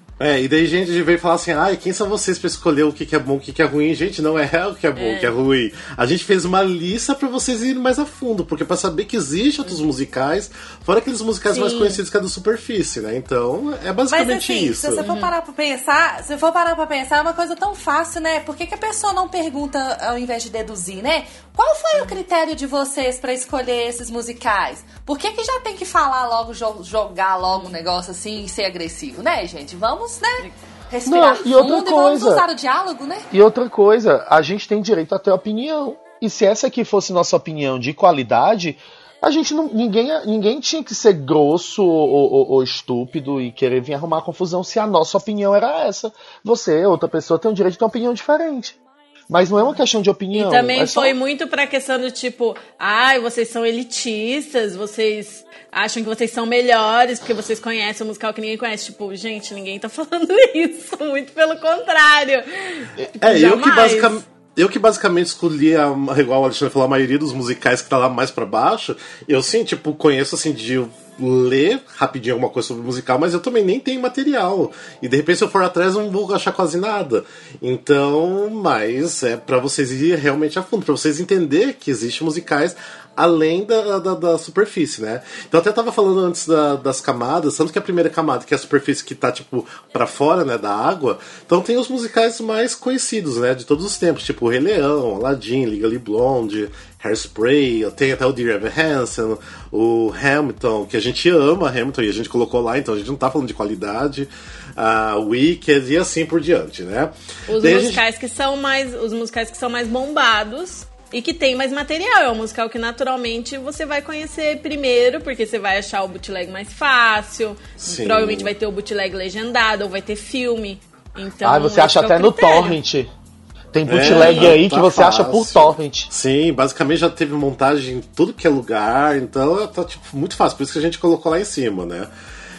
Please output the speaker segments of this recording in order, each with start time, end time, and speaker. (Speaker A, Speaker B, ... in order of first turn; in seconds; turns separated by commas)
Speaker A: 0.2-15.0, Speaker B: 5.0-5.3, Speaker B: 11.5-12.0, Speaker C: 14.1-33.3, Speaker B: 14.9-15.3, Speaker D: 31.1-32.4, Speaker D: 33.3-48.8, Speaker D: 49.3-51.1, Speaker B: 50.3-64.2, Speaker A: 63.2-108.0, Speaker B: 107.5-122.8, Speaker A: 117.8-118.5, Speaker D: 121.4-123.1, Speaker D: 123.7-126.1, Speaker A: 123.9-132.1, Speaker B: 124.1-124.5